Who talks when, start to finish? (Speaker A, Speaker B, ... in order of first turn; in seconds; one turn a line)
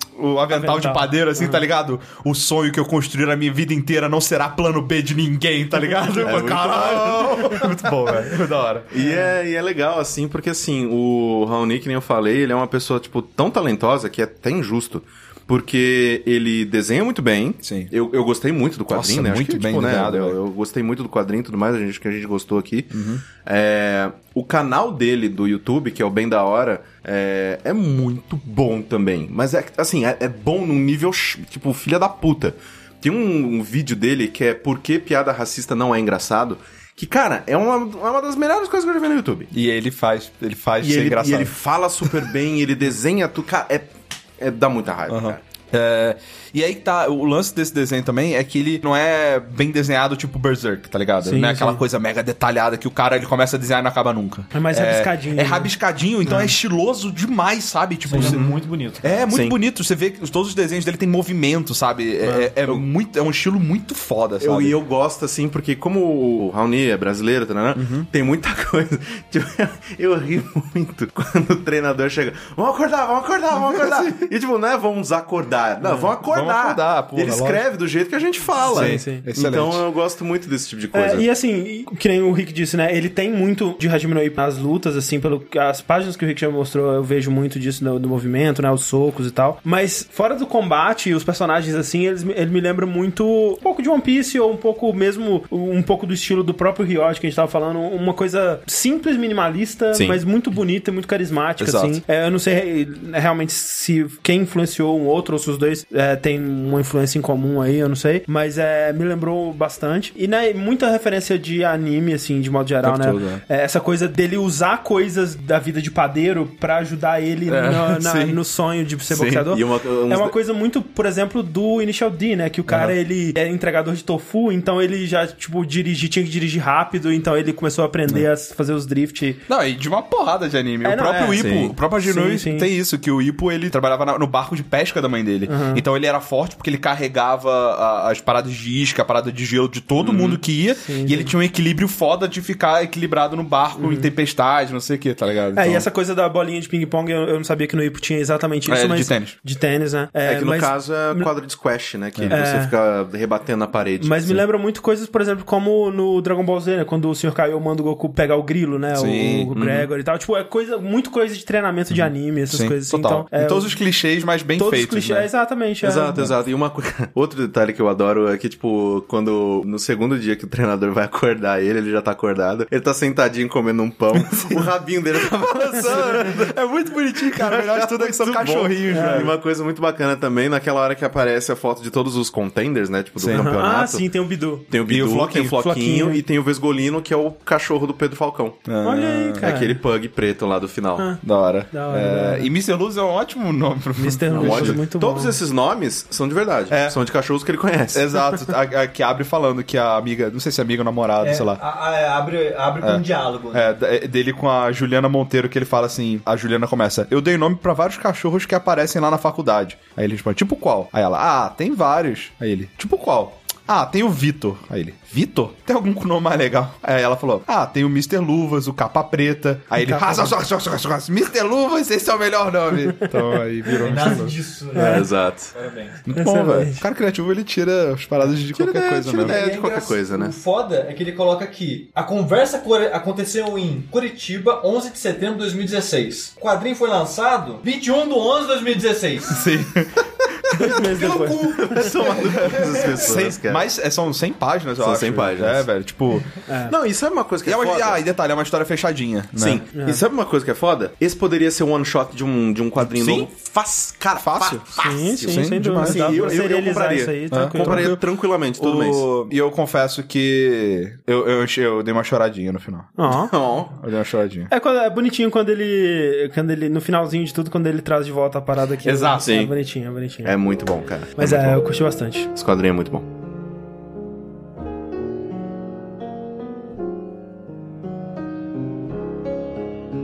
Speaker A: 0.2-8.9
Speaker B: 0.5-1.6
Speaker C: 6.2-8.3
Speaker C: 8.9-39.5
Speaker B: 9.0-9.3
Speaker A: 17.6-17.9
Speaker A: 18.9-20.4
Speaker A: 22.9-23.2
Speaker A: 39.5-41.5
Speaker C: 40.8-45.4
Speaker A: 45.1-58.5
Speaker B: 51.2-51.8
Speaker B: 54.5-55.7
Speaker B: 56.2-56.5
Speaker D: 58.1-59.2
Speaker C: 58.2-58.5
Speaker A: 59.0-64.8
Speaker C: 59.3-59.6
Speaker B: 62.2-62.5
Speaker C: 64.4-81.3
Speaker A: 67.8-68.1
Speaker B: 75.8-76.1
Speaker A: 76.2-77.6
Speaker B: 78.6-79.2
Speaker A: 78.6-79.8
Speaker B: 80.9-129.4
Speaker C: 99.9-100.2
Speaker A: 101.6-102.0
Speaker A: 112.8-113.4
Speaker A: 117.5-118.4
Speaker C: 119.1-120.3
Speaker A: 122.7-122.9
Speaker A: 129.5-145.8
Speaker B: 130.8-132.7
Speaker C: 131.3-131.8
Speaker B: 135.5-135.8
Speaker C: 140.0-140.4
Speaker B: 140.8-141.3
Speaker B: 143.8-144.1
Speaker B: 145.6-151.3
Speaker A: 148.7-149.3
Speaker C: 150.2-154.4
Speaker B: 152.3-152.7
Speaker B: 154.0-163.7
Speaker A: 158.9-159.6
Speaker C: 159.5-159.9
Speaker A: 161.9-165.3
Speaker B: 164.6-166.3
Speaker C: 165.8-176.6
Speaker A: 175.8-179.3
Speaker C: 177.2-184.1
Speaker B: 178.9-179.3
Speaker A: 183.2-183.6
Speaker B: 183.3-184.7
Speaker C: 184.7-188.7
Speaker A: 184.9-185.6
Speaker B: 185.6-186.2
Speaker A: 188.7-189.5
Speaker B: 188.8-189.8
Speaker C: 189.4-191.1
Speaker B: 191.0-192.5
Speaker A: 191.2-194.8
Speaker B: 194.0-195.4
Speaker C: 194.3-198.1
Speaker A: 197.9-201.6
Speaker D: 201.2-203.7
Speaker A: 203.5-224.3
Speaker B: 219.8-220.3
Speaker D: 223.7-226.0
Speaker B: 224.8-225.1
Speaker C: 224.9-225.5
Speaker A: 226.1-229.4
Speaker B: 226.2-226.8
Speaker C: 228.5-230.3
Speaker D: 229.2-239.3
Speaker A: 239.3-241.9
Speaker B: 240.6-241.8
Speaker C: 241.4-243.7
Speaker D: 242.5-243.1
Speaker A: 243.0-246.4
Speaker C: 244.8-245.7
Speaker B: 246.4-246.8
Speaker C: 246.7-248.0
Speaker A: 247.4-249.6
Speaker C: 249.4-259.1
Speaker B: 249.8-250.0
Speaker A: 252.8-253.3
Speaker A: 254.2-254.6
Speaker B: 254.8-257.9
Speaker A: 255.2-256.3
Speaker A: 257.3-258.0
Speaker A: 258.6-263.0
Speaker B: 263.0-263.3
Speaker C: 263.1-263.8
Speaker A: 263.7-264.5
Speaker B: 264.5-270.4
Speaker C: 268.8-269.6
Speaker C: 270.2-271.6
Speaker B: 271.2-272.3
Speaker C: 272.3-273.1